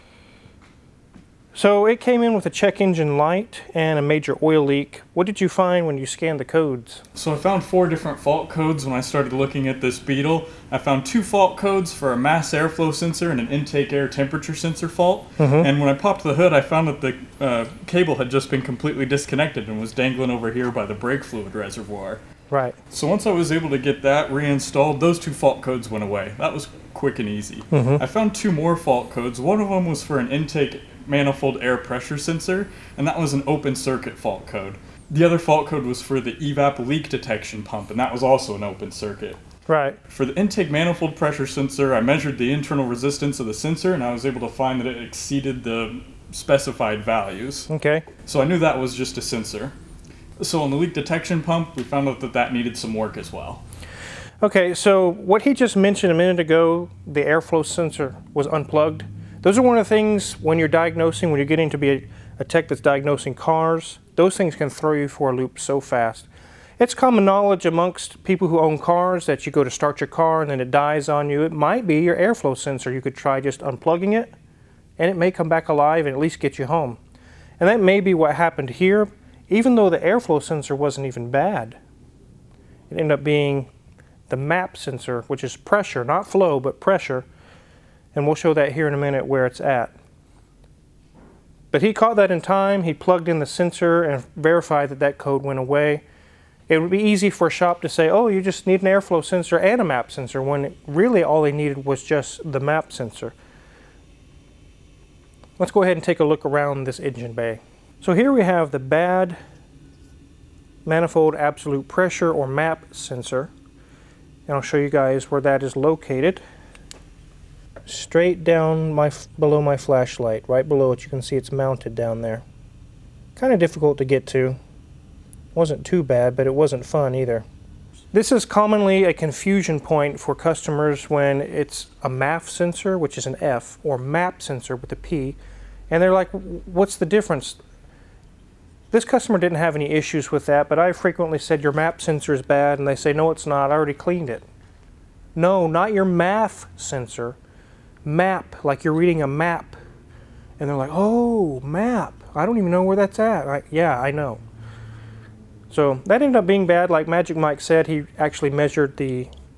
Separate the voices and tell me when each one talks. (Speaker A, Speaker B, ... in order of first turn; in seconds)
Speaker A: 1.5-7.0, 15.4-15.7, 22.5-22.8, 27.7-28.0, 39.7-40.0, 47.7-48.1, 54.4-74.3, 75.0-77.0, 77.6-81.8, 82.9-83.7, 84.3-87.3, 88.2-89.9, 91.7-96.0, 96.7-103.3, 105.6-109.4, 110.9-113.5, 114.5-116.4, 117.9-122.4, 123.4-124.6, 125.5-127.5, 128.1-135.4, 135.9-137.6, 138.9-144.4, 145.3-147.4, 148.1-149.8, 150.6-154.4, 155.7-159.3
Speaker B: 7.2-22.2, 22.9-39.4, 40.1-47.7, 48.3-49.7, 50.4-53.6